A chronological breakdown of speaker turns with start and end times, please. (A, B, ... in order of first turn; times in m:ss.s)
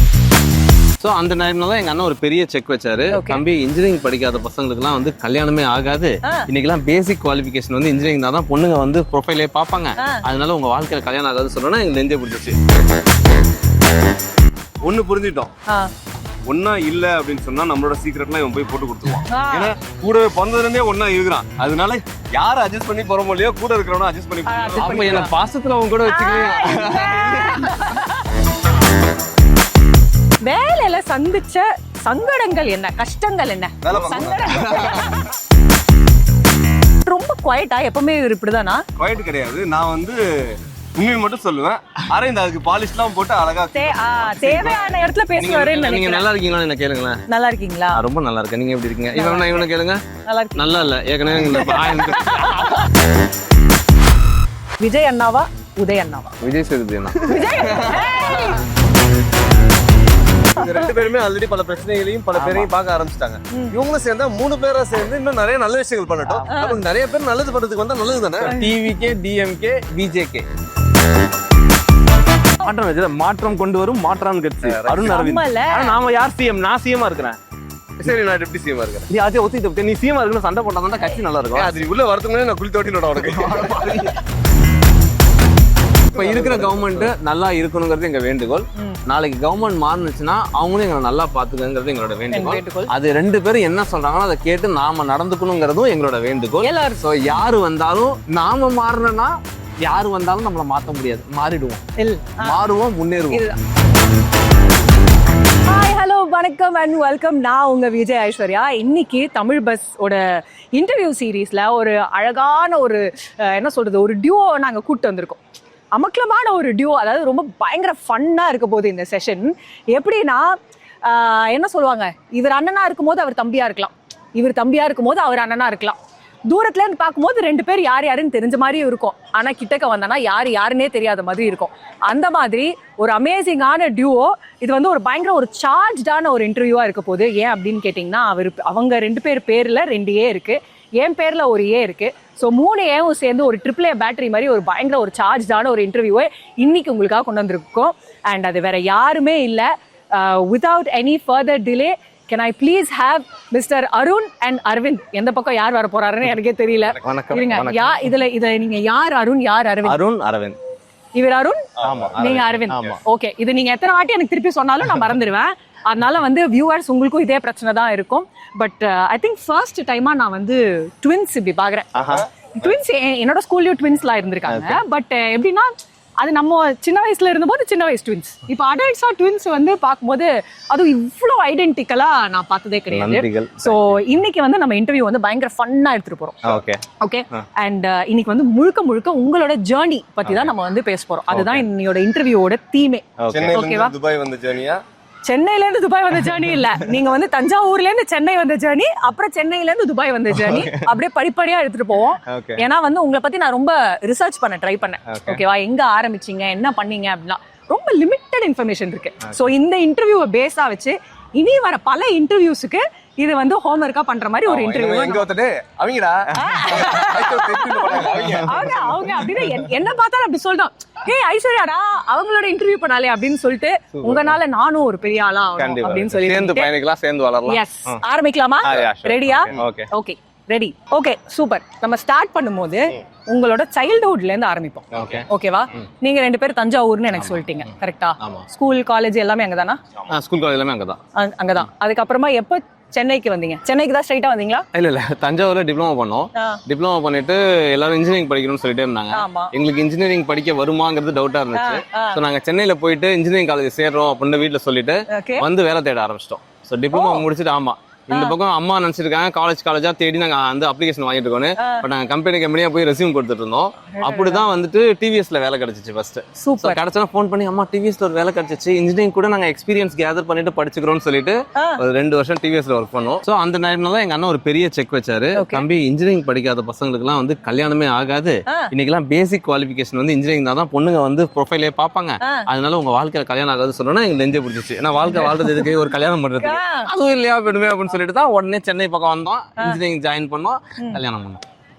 0:01.0-0:12.6 A
0:03.1-0:03.4 B
0:10.0-0:10.2 B
0:14.8-0:15.5 C
0:16.5-0:25.3 C
0:19.3-0:19.7 B
0:24.4-0:25.3 B
0:24.8-0:28.0 A
0:26.0-0:28.3 B
0:30.4-0:35.3 B
0:33.8-0:34.8 C
0:34.5-0:35.1 A
0:37.0-0:38.8 B
0:39.0-0:44.9 C
0:43.7-0:46.2 B
0:45.4-0:47.2 A
0:47.3-0:48.0 B
0:47.9-0:50.0 A
0:49.1-0:49.7 B
0:50.2-0:52.8 B
0:50.6-0:52.8 A
0:54.8-0:56.3 B
0:56.4-0:58.6 A
0:57.2-0:58.6 B
1:00.5-1:08.6 C
1:02.3-1:02.7 A
1:06.2-1:06.8 A
1:06.5-1:06.8 B
1:08.4-1:10.4 A
1:08.5-1:08.7 B
1:12.6-1:17.4 A
1:14.6-1:15.2 C
1:15.0-1:16.0 B
1:18.0-1:19.1 C
1:19.1-1:21.7 A
1:21.5-1:23.8 C
1:23.2-1:24.1 A
1:26.1-1:27.1 C
1:26.1-1:41.8 A
1:32.3-1:32.9 B
1:36.6-1:37.1 B
1:42.0-1:42.6 B
1:42.4-1:43.4 A
1:43.3-1:43.6 B
1:45.7-1:55.4 B
1:55.9-2:06.0 B
2:06.5-2:40.0 B
2:37.0-2:38.1 A
2:39.8-2:40.6 A
2:41.2-2:41.6 B
2:41.8-2:43.0 C
2:41.8-2:43.0 A
2:42.2-2:51.9 B
2:51.9-2:52.2 A
2:52.0-2:52.7 C
2:52.6-3:06.4 B
2:54.4-2:54.8 A
3:02.9-3:04.0 A
3:06.4-3:06.8 A
3:07.0-3:13.9 B
3:11.3-3:11.6 A
3:13.2-3:13.6 A
3:13.3-3:14.8 C
3:15.2-3:35.3 B
3:20.3-3:20.9 A
3:22.3-3:22.6 A
3:25.1-3:25.4 A
3:34.5-3:39.1 C
3:36.4-3:46.7 B
3:36.7-3:38.6 A
3:39.2-3:39.4 A
3:44.0-3:44.4 A
3:45.6-3:48.0 A
3:47.4-3:59.8 B
3:48.6-3:49.9 A
3:54.9-3:55.8 A
3:57.2-3:58.4 A
4:00.1-4:01.0 A
4:01.2-4:04.6 B
4:04.7-4:51.4 A
4:06.4-4:06.6 B
4:09.1-4:09.5 B
4:11.5-4:12.2 B
4:15.1-4:15.4 B
4:16.9-4:17.2 B
4:18.1-4:18.4 B
4:21.6-4:21.8 B
4:23.9-4:24.5 B
4:26.4-4:26.8 B
4:31.6-4:31.8 B
4:35.3-4:35.6 B
4:42.2-4:42.5 B
4:45.0-4:45.7 B
4:46.4-4:46.9 B